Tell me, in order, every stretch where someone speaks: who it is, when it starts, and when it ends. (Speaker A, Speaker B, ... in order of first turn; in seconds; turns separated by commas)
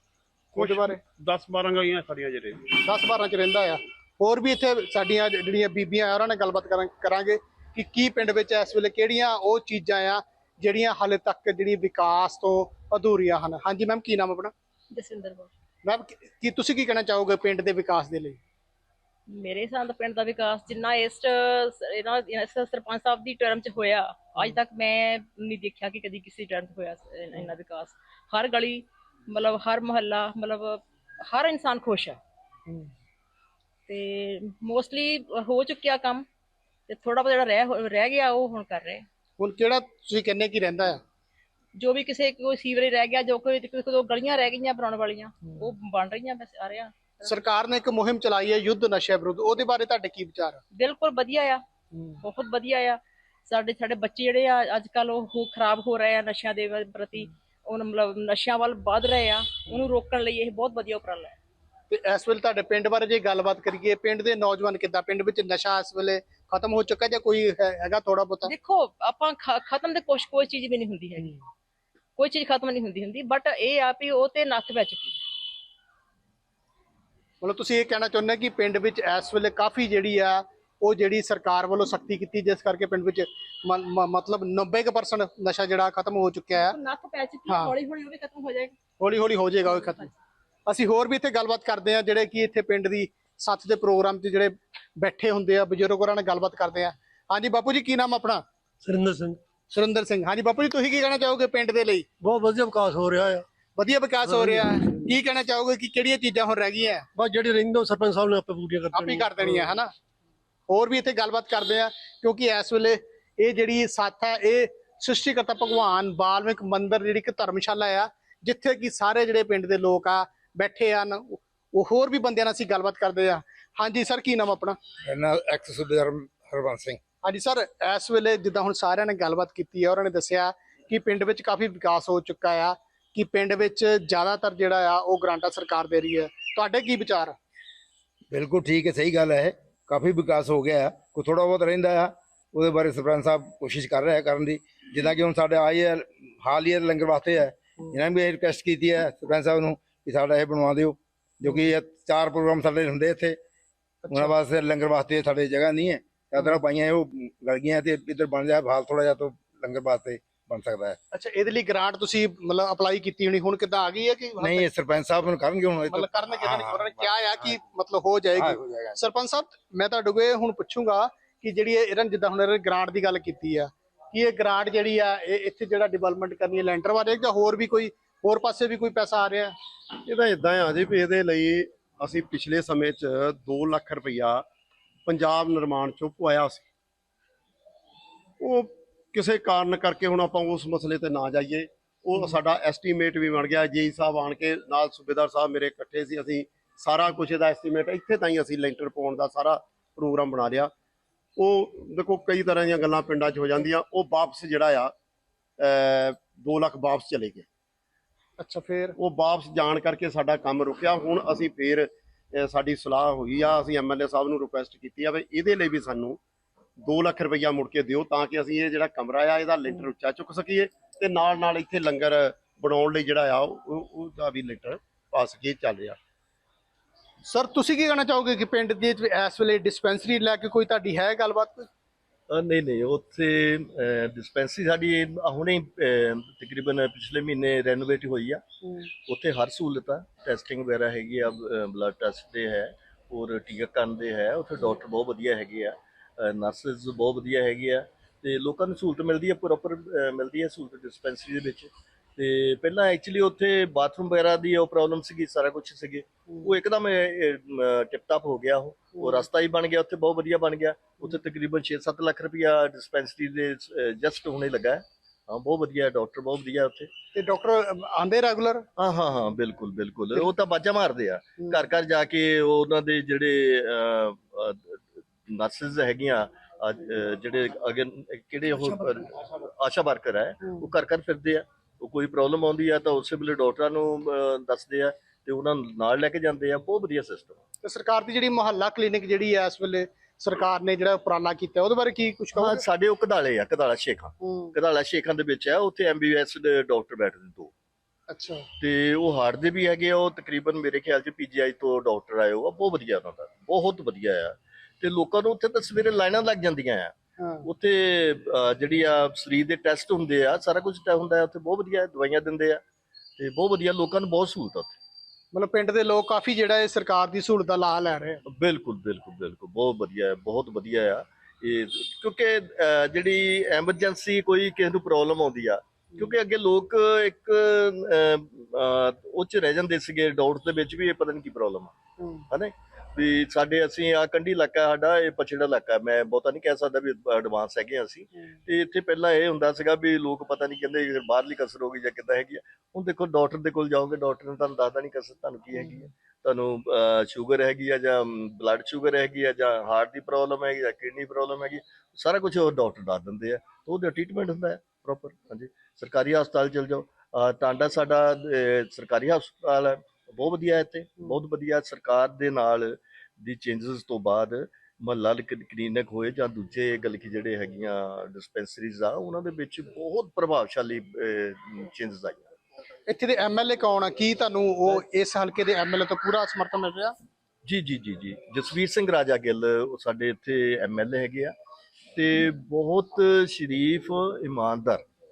Speaker A: 0.5-1.0, Speaker B: 0.6-2.6, Speaker A: 2.7-14.5, Speaker C: 14.9-15.5, Speaker A: 15.8-18.4, Speaker C: 19.3-32.2, Speaker C: 33.9-36.2, Speaker C: 36.9-39.0, Speaker A: 39.4-41.0, Speaker C: 41.8-47.3, Speaker A: 47.2-50.6, Speaker C: 50.7-51.6, Speaker A: 51.9-52.2, Speaker C: 52.2-61.4, Speaker A: 61.9-68.5, Speaker C: 68.4-71.4, Speaker C: 72.2-75.2, Speaker A: 77.4-86.8, Speaker C: 86.5-88.8, Speaker A: 87.5-87.7, Speaker A: 89.0-90.1, Speaker A: 90.7-98.4, Speaker D: 98.8-99.4, Speaker A: 99.7-102.0, Speaker D: 102.2-103.5, Speaker A: 103.8-107.0, Speaker D: 104.4-104.6, Speaker D: 107.2-109.5, Speaker A: 108.9-109.9, Speaker A: 110.7-124.8, Speaker E: 125.1-127.0, Speaker A: 127.2-137.3, Speaker E: 138.3-153.4, Speaker A: 154.0-154.3, Speaker E: 154.1-161.0, Speaker A: 161.1-164.7, Speaker E: 164.4-167.5, Speaker A: 165.8-179.5, Speaker E: 168.3-169.0, Speaker F: 180.0-184.4, Speaker F: 185.1-186.7, Speaker F: 188.4-200.7, Speaker F: 201.4-204.9, Speaker F: 205.6-207.4, Speaker A: 208.4-208.9, Speaker F: 209.0-216.2, Speaker F: 216.8-226.0, Speaker A: 227.2-231.7, Speaker G: 232.3-238.4, Speaker G: 239.1-266.9, Speaker A: 267.1-268.6, Speaker G: 268.8-287.4, Speaker A: 287.6-292.6, Speaker G: 292.3-297.5, Speaker A: 294.2-294.5, Speaker A: 298.1-298.4, Speaker G: 298.6-306.9, Speaker A: 307.2-307.4, Speaker G: 307.4-312.6, Speaker G: 313.2-314.7, Speaker A: 315.3-318.2, Speaker G: 318.3-331.7, Speaker G: 332.3-372.3, Speaker A: 372.9-376.9, Speaker G: 377.4-381.3, Speaker G: 381.9-384.8